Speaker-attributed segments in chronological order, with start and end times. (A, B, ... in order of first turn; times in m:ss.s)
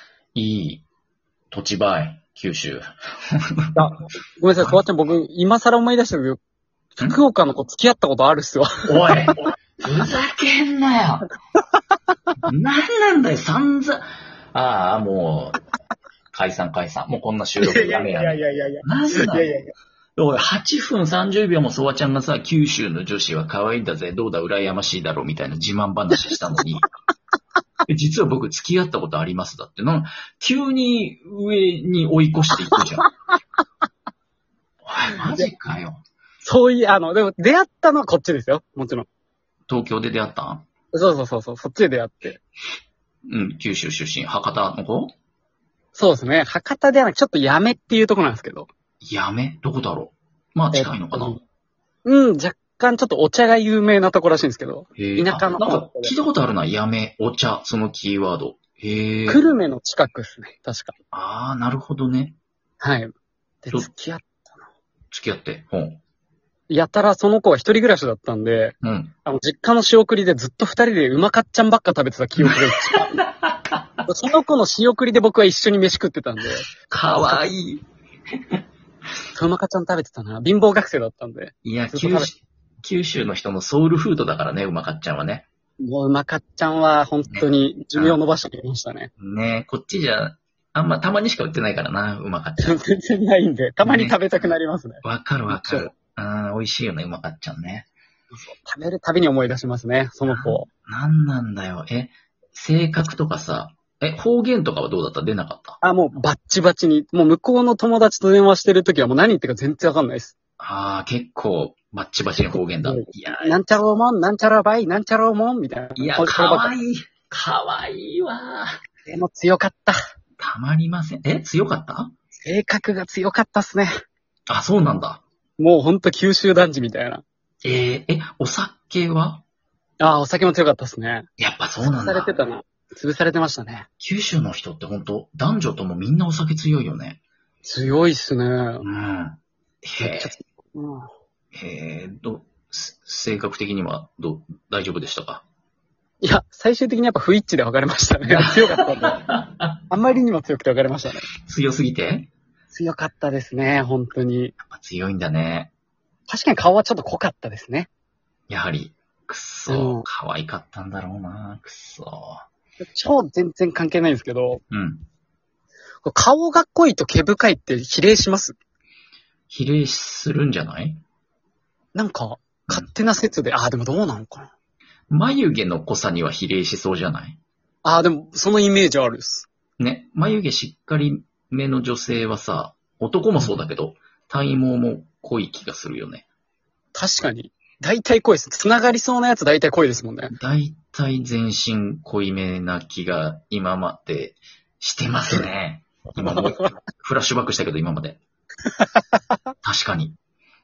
0:00.3-0:00.8 A
0:01.5-0:03.8 A
0:03.8-0:06.4 B
0:07.0-0:09.1 B
0:08.8-0:11.3 A
0:12.4-0:15.6 A
0:16.3-0:19.5 A
0:17.6-0:19.7 B
0:20.2-0:26.9 A
0:26.1-0:26.8 B
0:27.9-0:33.1 A
0:34.8-0:36.0 A
0:35.2-0:35.5 B
0:36.4-0:39.1 B
0:39.7-0:40.6 A
0:40.9-0:42.4 B
0:43.3-0:45.1 A
0:45.9-0:48.7 B
0:49.0-0:51.4 A
0:50.7-0:51.4 B
0:52.0-0:56.2 B
0:55.0-0:59.4 A
0:59.3-1:00.9 B
1:01.1-1:02.4 A
1:02.8-1:04.6 B
1:05.1-1:06.0 A
1:06.7-1:13.2 B
1:08.8-1:09.1 A
1:12.4-1:13.8 A
1:14.0-1:17.4 B
1:16.8-1:17.8 A
1:19.3-1:22.3 B
1:21.6-1:25.4 A
1:25.8-1:29.1 B
1:27.3-1:28.2 A
1:29.2-1:32.8 A
1:32.6-1:35.9 B
1:33.8-1:34.2 A
1:35.0-1:37.9 A
1:38.3-1:40.7 B
1:40.3-1:45.8 A
1:45.8-1:50.3 B
1:50.6-1:53.6 A
1:52.5-1:56.7 B
1:56.0-1:58.7 A
1:59.0-2:00.0 B
2:00.4-2:02.1 A
2:02.4-2:03.9 B
2:04.5-2:05.2 A
2:05.6-2:07.2 B
2:07.6-2:09.4 A
2:10.0-2:11.3 B
2:11.4-2:12.4 A
2:11.8-2:13.9 B
2:14.0-2:17.2 A
2:17.6-2:18.8 B
2:18.8-2:20.3 A
2:20.0-2:21.1 B
2:21.5-2:25.4 A
2:26.2-2:29.2 B
2:28.2-2:29.8 A
2:29.9-2:31.3 B
2:31.4-2:32.3 A
2:32.7-2:34.5 B
2:34.6-2:35.7 A
2:36.3-2:37.9 B
2:38.5-2:42.4 A
2:39.7-2:40.0 B
2:42.8-2:44.6 B
2:44.7-2:45.0 A
2:46.0-2:48.6 B
2:49.5-2:51.0 A
2:51.9-2:54.5 B
2:55.1-2:57.4 A
2:57.8-2:59.5 B
2:59.8-3:06.2 A
3:06.9-3:10.3 B
3:10.3-3:18.2 A
3:16.2-3:16.7 B
3:19.6-3:20.2 A